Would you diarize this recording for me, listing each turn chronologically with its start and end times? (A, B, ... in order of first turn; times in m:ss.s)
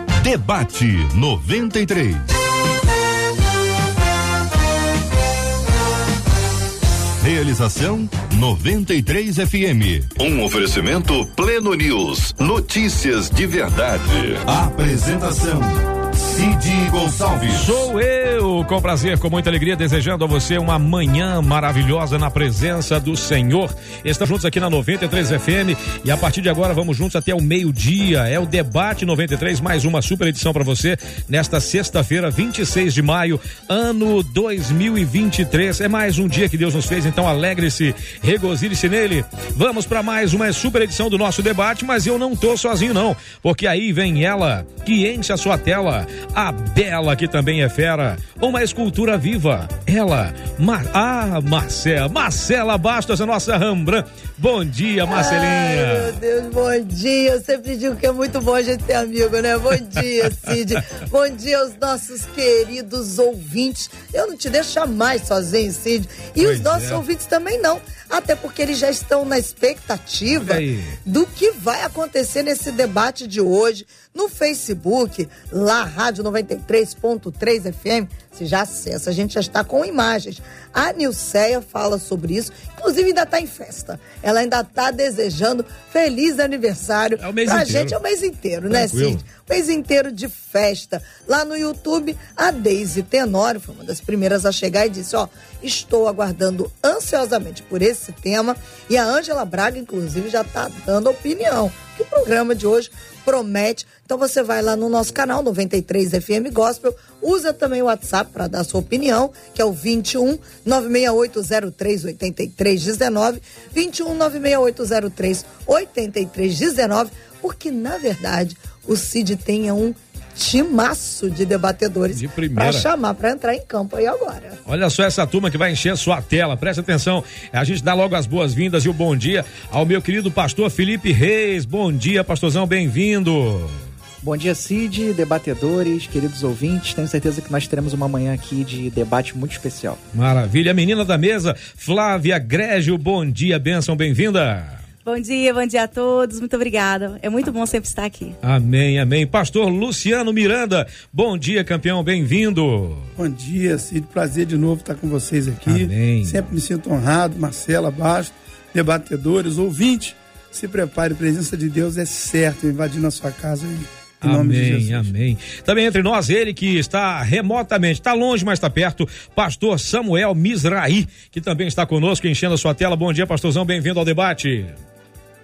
0:00.2-0:02.3 A
0:07.2-0:17.8 A
0:17.5-0:56.1 B
0:55.1-2:04.6 C
1:06.4-1:07.0 B
1:10.3-1:11.0 B
1:27.2-1:28.0 B
1:28.7-1:29.2 B
2:02.1-2:02.9 B
2:04.6-2:13.8 B
2:14.2-2:20.0 D
2:20.1-2:24.8 B
2:25.0-2:28.4 E
2:28.4-2:33.1 B
2:33.2-2:45.1 F
2:35.7-2:36.5 B
2:44.2-2:54.8 B